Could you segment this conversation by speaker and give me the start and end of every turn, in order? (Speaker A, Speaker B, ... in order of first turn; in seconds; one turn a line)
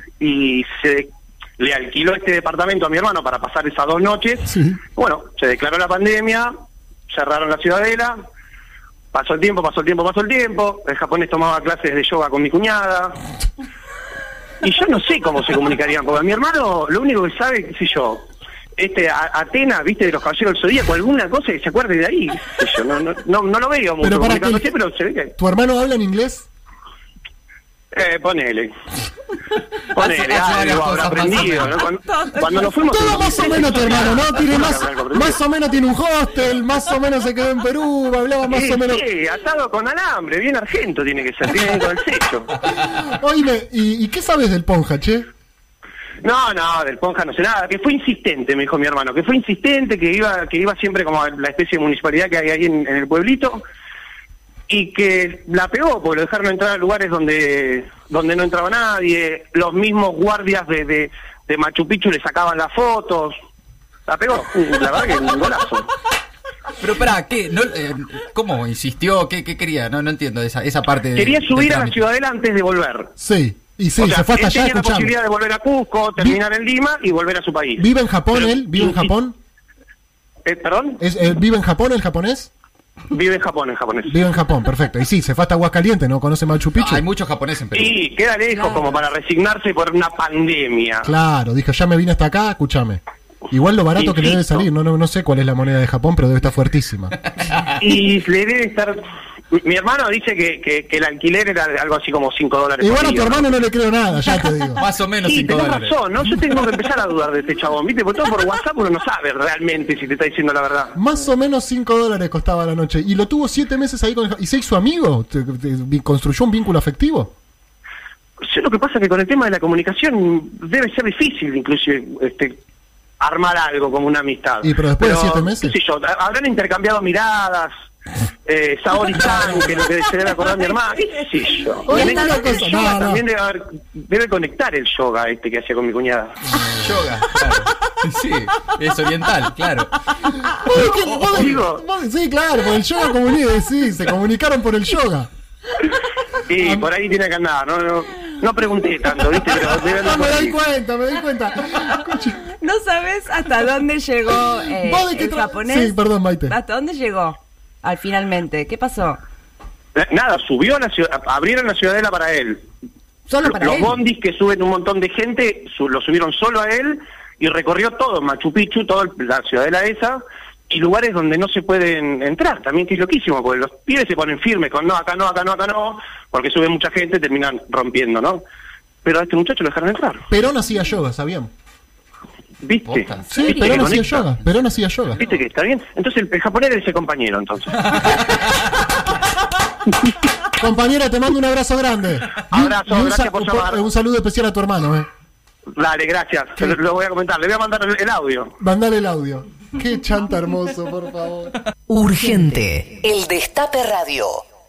Speaker A: 0.2-6.5
Speaker B: 4.4-4.8
Speaker A: 7.1-8.2
Speaker A: 9.1-13.2
Speaker A: 14.6-25.3
Speaker B: 24.0-24.7
Speaker B: 25.4-26.5
Speaker A: 27.9-28.7
Speaker A: 29.9-35.4
Speaker C: 29.9-31.8
Speaker D: 32.1-32.7
Speaker B: 32.9-39.0
Speaker A: 38.5-42.6
Speaker B: 42.7-45.2
Speaker A: 46.2-53.6
Speaker A: 54.7-63.3
Speaker A: 64.1-65.9
Speaker C: 66.8-72.0
Speaker A: 71.1-73.1
Speaker B: 73.2-75.1
Speaker A: 74.0-79.1
Speaker B: 77.8-79.3
Speaker A: 80.4-81.0
Speaker B: 81.0-82.5
Speaker A: 83.1-84.1
Speaker B: 84.1-87.0
Speaker C: 86.8-87.9
Speaker A: 87.7-91.1
Speaker B: 91.0-97.2
Speaker A: 94.0-94.6
Speaker A: 97.8-99.0
Speaker A: 99.5-103.5
Speaker B: 102.8-104.8
Speaker C: 104.8-106.0
Speaker A: 105.2-111.0
Speaker B: 111.0-117.3
Speaker A: 118.4-122.6
Speaker A: 123.2-127.7
Speaker B: 124.6-125.7
Speaker A: 128.4-136.3
Speaker B: 131.9-133.2
Speaker D: 132.0-132.7
Speaker C: 136.6-140.0
Speaker B: 140.4-145.3
Speaker C: 140.7-141.0
Speaker A: 141.3-141.8
Speaker A: 146.5-150.6
Speaker B: 146.6-146.8
Speaker B: 149.9-152.5
Speaker D: 152.4-159.2
Speaker B: 154.7-156.6
Speaker A: 159.9-162.7
Speaker D: 163.3-163.9
Speaker A: 163.4-178.4
Speaker A: 179.0-180.2
Speaker B: 180.3-181.5
Speaker A: 182.6-184.3
Speaker C: 182.9-183.8
Speaker B: 183.3-185.2
Speaker A: 185.2-188.2
Speaker B: 190.6-195.1
Speaker A: 192.5-193.8
Speaker A: 195.8-198.5
Speaker B: 198.6-201.5
Speaker E: 201.9-204.4